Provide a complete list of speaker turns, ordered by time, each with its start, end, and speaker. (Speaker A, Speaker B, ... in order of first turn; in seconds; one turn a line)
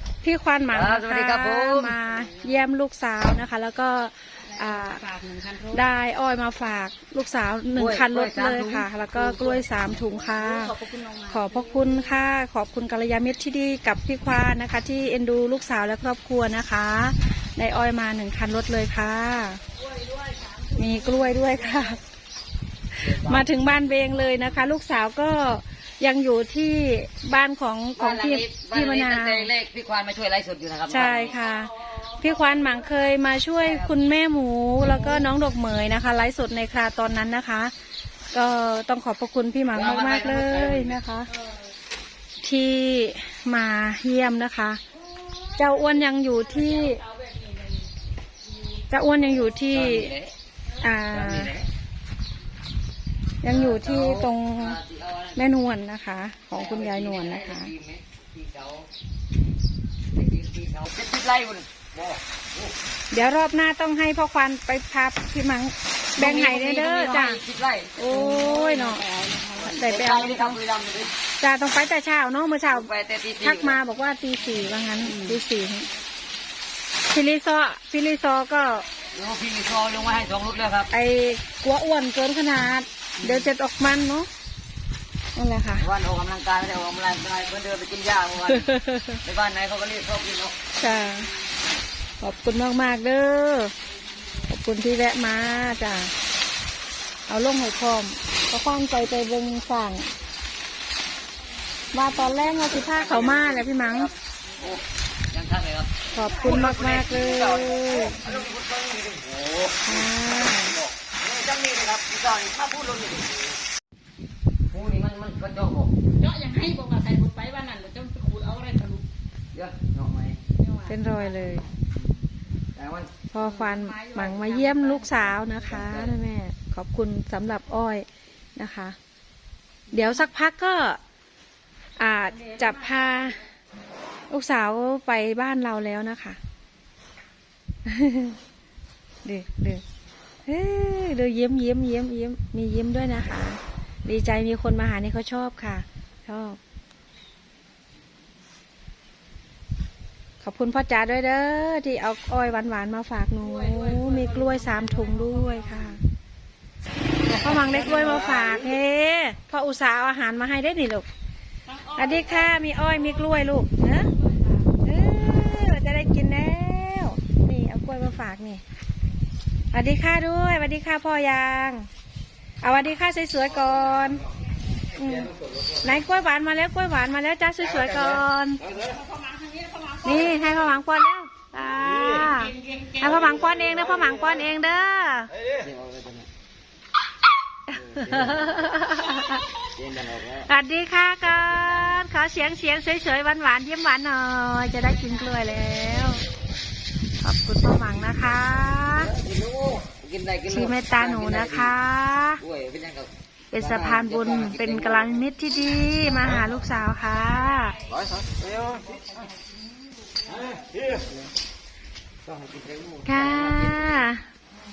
Speaker A: 0.2-5.1
Speaker B: 0.7-2.0
Speaker C: 4.5-5.8
Speaker A: 5.7-10.7
Speaker B: 7.8-10.3
Speaker C: 10.3-11.6
Speaker A: 11.3-19.6
Speaker C: 19.7-22.0
Speaker A: 20.8-22.0
Speaker B: 23.0-24.7
Speaker A: 23.0-29.5
Speaker B: 28.0-31.4
Speaker A: 30.9-37.7
Speaker C: 31.3-32.8
Speaker B: 33.6-33.9
Speaker B: 34.8-35.2
Speaker A: 38.3-41.3
Speaker B: 39.7-41.0
Speaker C: 41.4-41.6
Speaker A: 42.4-44.8
Speaker C: 45.3-47.9
Speaker A: 45.5-47.0
Speaker C: 48.5-48.8
Speaker A: 48.9-50.1
Speaker B: 49.7-50.3
Speaker A: 50.8-51.5
Speaker B: 51.1-51.7
Speaker A: 53.4-54.8
Speaker B: 53.4-55.5
Speaker A: 55.4-57.7
Speaker B: 56.5-58.9
Speaker B: 60.1-62.7
Speaker A: 63.1-67.4
Speaker B: 66.2-68.0
Speaker A: 68.0-69.0
Speaker C: 68.1-69.8
Speaker B: 69.6-71.1
Speaker A: 69.7-70.6
Speaker A: 71.4-72.9
Speaker B: 72.7-73.8
Speaker A: 73.4-75.9
Speaker B: 75.1-75.4
Speaker A: 77.1-78.9
Speaker B: 79.1-80.9
Speaker A: 80.9-84.3
Speaker B: 83.2-83.5
Speaker A: 85.3-85.9
Speaker B: 85.8-88.7
Speaker A: 88.5-89.2
Speaker B: 89.2-90.5
Speaker A: 90.8-91.3
Speaker A: 92.2-93.7
Speaker A: 94.5-96.1
Speaker A: 97.3-100.1
Speaker A: 101.9-104.1
Speaker B: 102.1-113.6
Speaker A: 106.1-108.2
Speaker A: 109.8-110.8
Speaker B: 114.7-115.9
Speaker C: 116.2-119.0
Speaker B: 119.5-120.4
Speaker C: 120.6-121.6
Speaker A: 120.9-121.6
Speaker B: 122.7-123.1
Speaker A: 123.3-128.9
Speaker C: 123.4-125.5
Speaker B: 125.5-126.2
Speaker A: 129.9-131.0
Speaker A: 132.0-133.4
Speaker C: 132.3-133.3
Speaker A: 134.3-136.4
Speaker A: 137.8-138.4
Speaker A: 139.2-139.8
Speaker A: 140.4-146.6
Speaker A: 150.4-156.0
Speaker C: 153.4-155.9
Speaker A: 157.3-161.1
Speaker C: 161.7-163.2
Speaker A: 161.9-164.1
Speaker C: 164.0-164.6
Speaker A: 164.8-168.6
Speaker A: 169.7-171.9
Speaker A: 172.6-174.2
Speaker A: 174.9-178.6
Speaker C: 178.7-180.6
Speaker A: 180.0-185.3
Speaker C: 182.1-183.3
Speaker B: 185.5-186.3
Speaker A: 187.7-189.4
Speaker B: 187.7-188.9
Speaker B: 189.8-190.5
Speaker A: 190.4-196.2
Speaker B: 191.2-192.1
Speaker A: 197.2-199.1
Speaker B: 198.8-201.8
Speaker A: 200.5-202.4
Speaker B: 202.4-205.2
Speaker A: 203.5-207.8
Speaker C: 207.5-209.5
Speaker B: 210.4-211.1
Speaker B: 212.2-214.1
Speaker A: 213.0-214.2